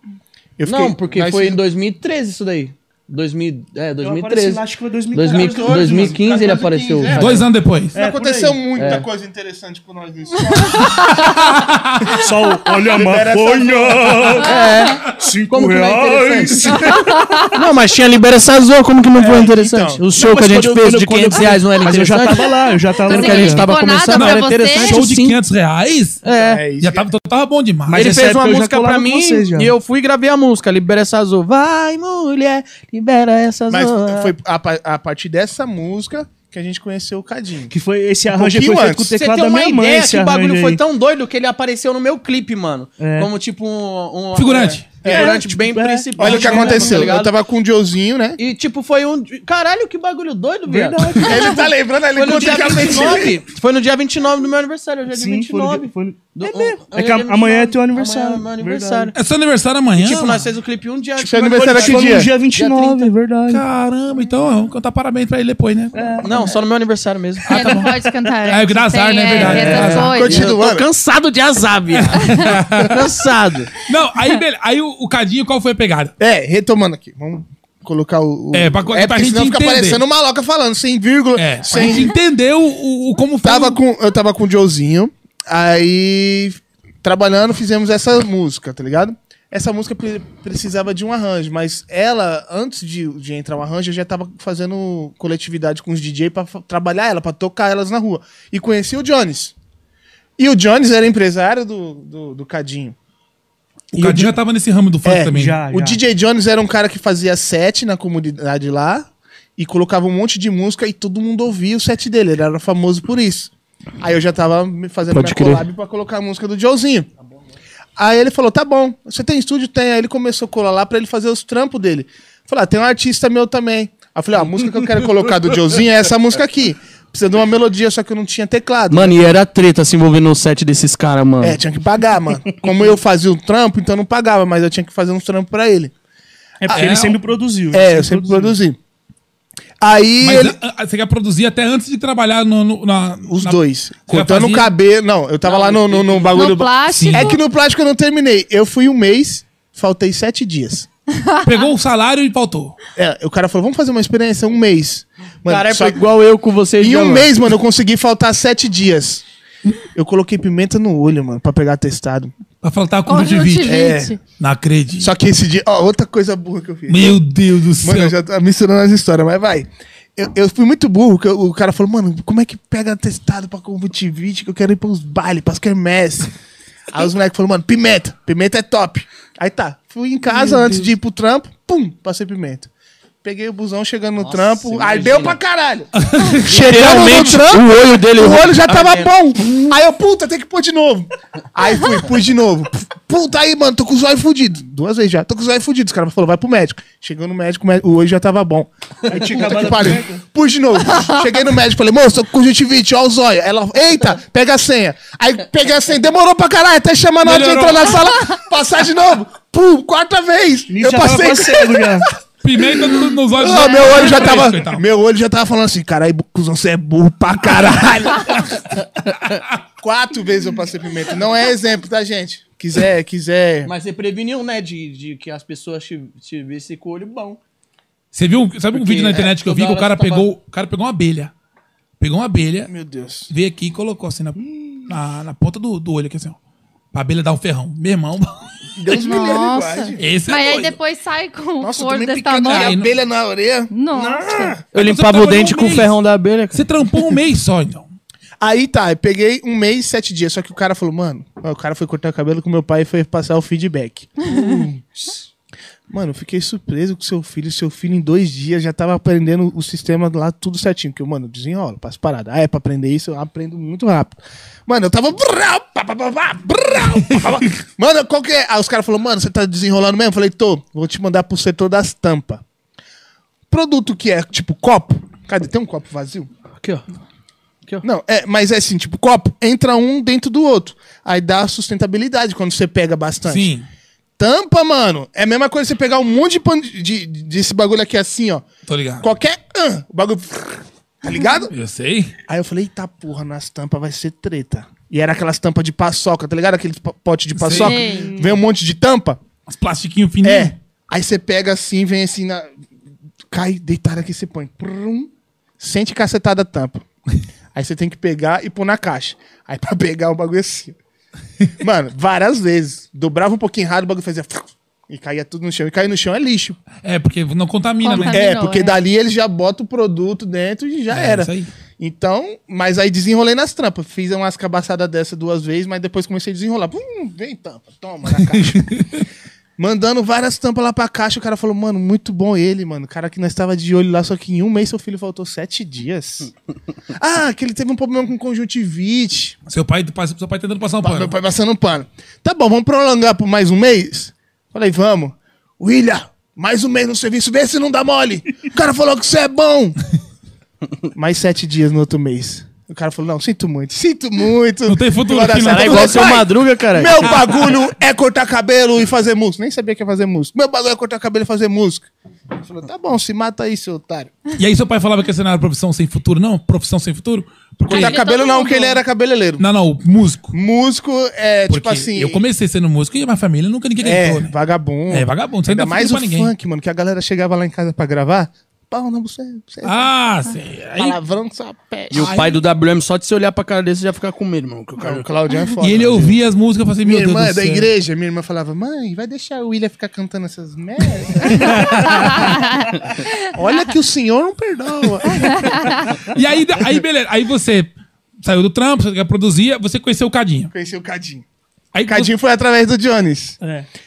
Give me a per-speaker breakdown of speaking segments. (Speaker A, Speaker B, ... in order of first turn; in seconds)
Speaker A: 0.6-1.6, 5.3-11.2, 12.8-14.4, 19.2-20.0, 26.3-27.1, 33.7-37.7, 38.3-39.1, 44.9-45.4, 46.2-48.4, 51.2-53.4, 61.2-62.3, 69.9-70.9, 76.2-82.1, 83.4-99.5, 100.4-103.0, 103.9-104.3, 105.0-117.1, 118.0-129.3, 131.4-135.9, 136.7-137.0, 137.7-138.8, 139.8-140.6, 143.3-150.9, 153.0-156.0, 156.8-159.2, 159.8-162.3, 163.6-164.2, 165.0-167.2, 167.8-176.3, 176.9-182.7, 183.2-212.1, 212.6-218.8, 219.8-223.7, 232.7-233.3, 238.8-240.0, 241.6-244.6, 248.4-255.2, 255.9-272.4, 273.5-276.3, 277.8-283.5, 284.2-288.5, 289.0-291.5, 292.3-299.2, 300.2-302.5, 303.3-306.9, 307.5-310.8, 311.6-316.6, 317.9-328.8, 329.6-336.3, 336.9-339.4, 340.8-349.8, 350.9-361.9, 362.4-364.1, 367.7-369.4, 370.3-372.2, 373.8-379.9, 380.8-382.2, 384.8-386.2, 386.8-392.4, 393.2-395.8, 400.5-401.2, 401.9-403.4
Speaker B: 0.7-7.5, 8.8-9.1, 14.4-16.9, 17.5-25.4, 26.2-26.6, 27.9-34.3, 39.1-47.4, 48.4-51.5, 52.1-59.1, 60.0-63.1, 66.2-67.8, 69.3-73.7, 115.1-115.7, 128.9-131.6, 145.4-146.4, 155.5-157.3, 184.2-185.4, 186.4-189.1, 223.7-227.4, 228.7-230.3, 244.7-246.6, 276.6-276.9, 355.4-357.1, 381.9-385.1
Speaker C: 4.0-6.2, 7.9-8.7, 12.1-17.2, 20.1-23.7, 27.9-29.7, 37.7-40.8, 43.0-43.3, 45.0-47.2, 50.7-51.5, 55.1-59.1, 61.5-63.6, 65.9-66.5, 105.3-106.0, 136.6-138.6, 199.1-200.2, 210.7-212.1, 298.0-298.4, 403.4-403.7
Speaker D: 7.2-8.0, 11.2-12.1, 24.1-26.2, 26.8-28.2, 44.4-44.9, 59.1-60.4, 63.5-66.3, 67.5-70.2, 72.0-73.0, 73.8-76.1, 78.5-80.0, 81.4-83.8, 103.9-105.6, 136.7-137.2, 140.2-144.7, 146.9-147.4, 151.4-152.8, 162.6-165.1, 166.9-168.2, 186.0-187.5, 207.2-208.1, 212.4-214.8, 228.1-231.3, 232.0-232.7, 233.3-236.4, 236.9-238.4, 240.0-240.8, 242.5-242.9, 244.8-245.9, 246.5-247.9, 283.3-283.7, 288.7-289.1, 291.5-292.1, 297.4-297.8, 299.5-300.5, 316.8-318.2, 320.9-321.5, 328.6-329.0, 339.5-341.1, 354.7-356.2, 364.4-368.0, 369.4-370.3, 371.5-374.3, 374.9-376.3, 379.6-381.0, 381.9-382.4, 385.6-387.7, 391.4-391.9, 396.1-397.7, 398.2-400.5, 401.7-402.1
Speaker E: 11.0-11.3, 16.9-17.6, 23.1-25.0, 67.5-70.5, 72.2-72.5, 146.3-147.4, 163.1-164.2, 213.5-214.0, 238.9-242.8, 243.7-244.6, 297.6-298.1, 317.8-318.8, 367.7-368.8, 391.9-392.8, 395.3-395.9